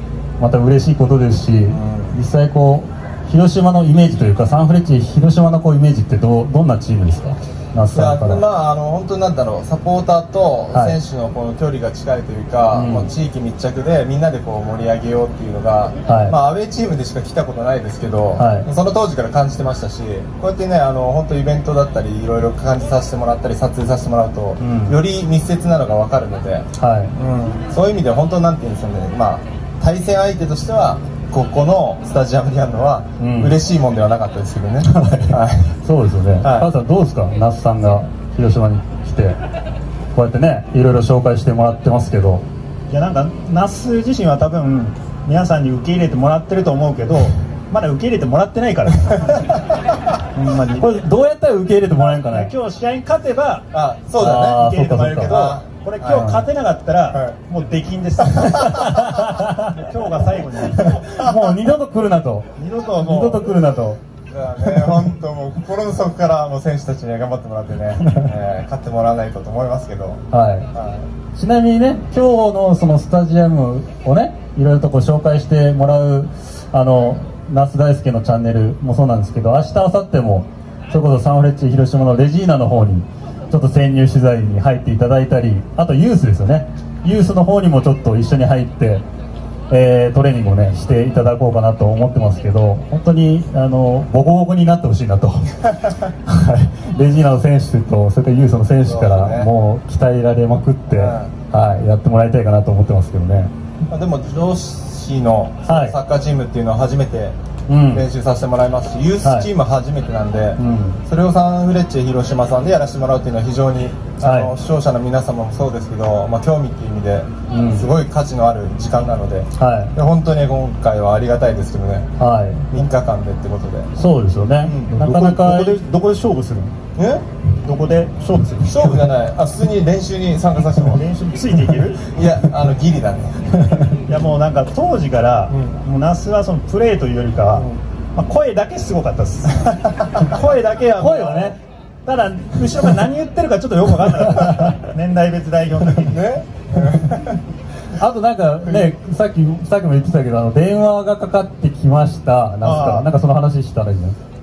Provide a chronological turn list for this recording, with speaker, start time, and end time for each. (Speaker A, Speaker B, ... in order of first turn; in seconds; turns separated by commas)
Speaker A: 0.4-8.4, Speaker B: 1.7-2.2, Speaker B: 7.9-35.7, Speaker A: 10.7-11.0, Speaker A: 12.7-13.1, Speaker A: 16.1-16.3, Speaker A: 18.4-18.7, Speaker A: 24.6-25.0, Speaker A: 26.8-27.1, Speaker A: 33.2-33.5, Speaker A: 34.8-39.4, Speaker B: 36.4-36.7, Speaker A: 40.1-42.4, Speaker C: 42.9-49.4, Speaker C: 50.3-51.0, Speaker A: 50.8-52.5, Speaker C: 52.3-53.7, Speaker B: 53.7-56.3, Speaker A: 54.1-55.4, Speaker C: 54.6-60.9, Speaker A: 56.1-56.5, Speaker B: 57.1-57.4, Speaker B: 58.4-58.8, Speaker A: 58.8-59.7, Speaker A: 60.8-62.5, Speaker C: 62.5-63.5, Speaker A: 63.0-64.0, Speaker B: 64.3-71.1, Speaker A: 70.3-70.7, Speaker A: 71.3-89.0, Speaker A: 89.7-103.5, Speaker B: 98.8-99.5, Speaker B: 100.9-101.3, Speaker B: 103.9-107.3, Speaker A: 105.7-106.0, Speaker A: 107.7-108.0, Speaker B: 107.9-122.1, Speaker A: 109.2-109.5, Speaker A: 110.6-111.0, Speaker A: 114.2-114.5, Speaker A: 117.5-117.9, Speaker A: 119.6-119.9, Speaker A: 122.2-122.7, Speaker B: 122.7-123.9, Speaker A: 124.0-125.8, Speaker B: 124.6-124.9, Speaker C: 124.9-126.7, Speaker B: 127.0-127.2, Speaker C: 127.6-129.1, Speaker B: 128.6-131.0, Speaker C: 130.8-132.0, Speaker B: 132.0-133.4, Speaker C: 134.1-146.3, Speaker B: 135.5-135.8, Speaker B: 137.5-137.8, Speaker A: 141.0-141.6, Speaker A: 144.3-144.7, Speaker B: 146.1-147.4, Speaker A: 147.9-154.2, Speaker C: 152.6-153.1